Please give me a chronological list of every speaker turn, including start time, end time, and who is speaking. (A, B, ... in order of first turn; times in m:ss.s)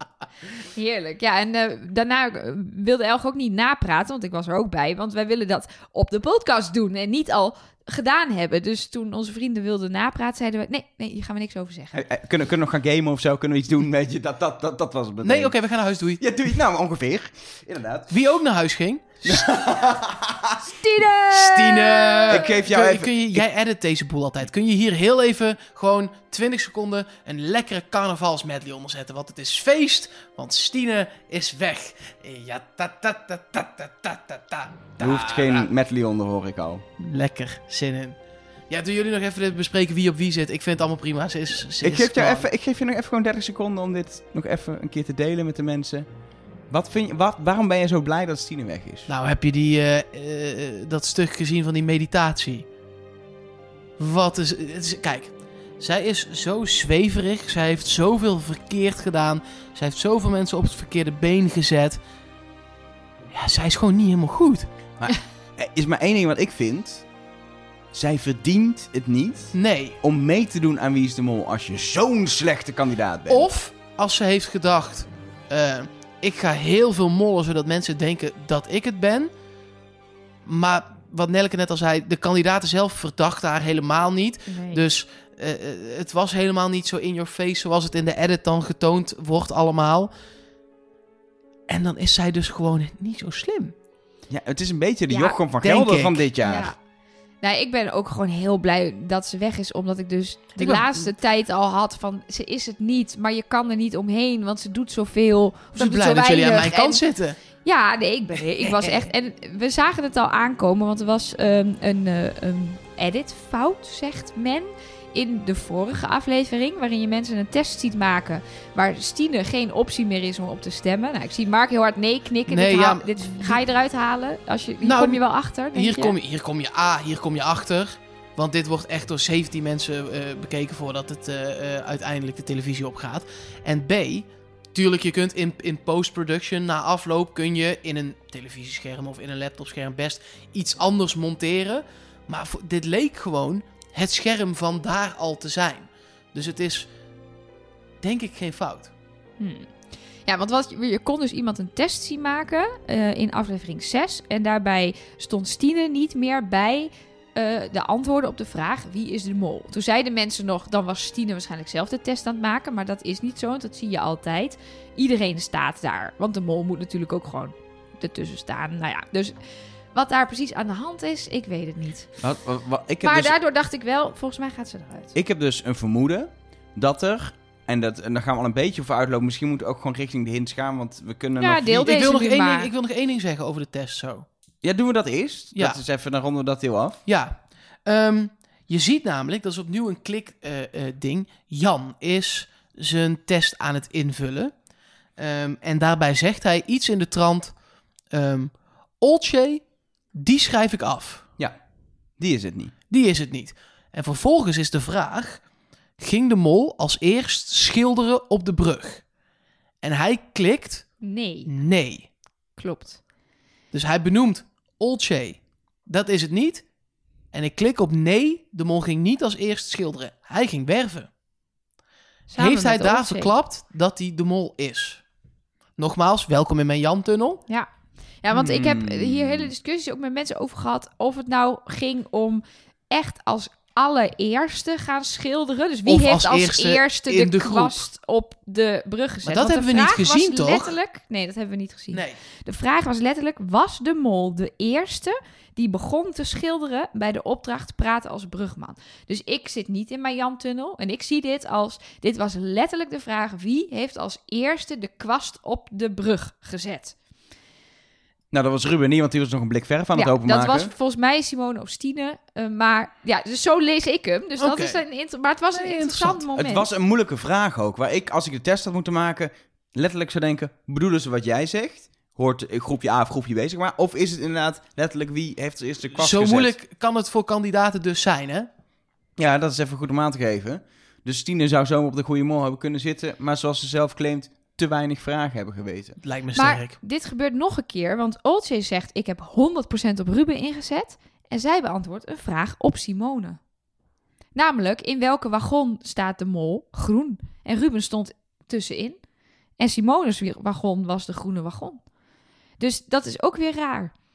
0:00.7-0:11.9 A
0:11.9-0:15.5 B
0:15.2-0:16.2 C
0:16.2-0:18.1 B
0:18.1-0:19.4 C
0:19.2-0:20.7 B
0:20.7-0:22.6 A
0:21.3-0:35.7 C
0:22.3-0:23.4 B
0:35.0-0:36.8 B
0:37.0-0:38.2 C
0:38.7-0:42.4 C
0:41.8-0:46.0 B
0:46.7-0:49.1 B
0:49.1-0:52.7 C
0:54.0-1:02.0 C
1:03.3-1:04.7 C
1:05.0-1:07.0 B
1:07.9-1:13.5 B
1:09.5-1:10.0 C
1:13.3-1:19.3 C
1:20.4-1:30.1 C
1:24.5-1:24.8 A
1:31.7-1:33.7 C
1:34.3-1:36.7 B
1:35.1-1:35.4 A
1:35.6-1:36.3 C
1:36.4-1:36.8 A
1:37.4-1:47.0 A
1:40.6-1:41.1 C
1:45.8-1:47.4 C
1:47.6-2:06.2 A
1:48.6-1:49.0 C
2:02.5-2:03.6 C
2:04.8-2:05.2 C
2:05.7-2:26.9 C
2:28.0-2:28.9 C
2:29.4-2:29.7 A
2:30.2-2:49.3 A
2:49.9-2:52.1 A
2:52.2-2:53.3 B
2:53.0-2:55.1 A
2:55.1-3:01.8 B
3:01.4-3:02.7 A
3:01.7-3:04.2 C
3:04.6-3:07.0 B
3:07.0-3:14.5 C
3:15.2-3:17.5 C
3:18.1-3:21.3 C
3:22.2-3:22.7 B
3:22.9-3:25.4 C
3:26.0-3:29.0 C
3:29.8-3:30.9 C
3:31.0-3:31.5 A
3:31.4-3:32.1 C
3:32.6-3:33.0 A
3:33.7-3:36.6 C
3:37.3-3:41.1 C
3:42.3-3:43.3 A
3:42.4-3:45.0 C
3:45.8-3:47.4 C
3:48.2-4:16.9 A
3:48.3-3:49.5 B
3:55.8-3:57.9 C
3:59.2-4:00.8 C
4:18.3-4:20.7 B
4:19.9-4:26.7 A
4:24.4-4:24.8 C
4:25.5-4:26.2 C
4:26.4-4:36.5 B
4:35.9-4:38.5 C
4:39.2-4:46.0 B
4:46.0-4:46.8 C
4:46.3-4:53.4 A
4:54.3-4:59.0 A
4:59.6-5:01.8 A
5:02.6-5:03.9 A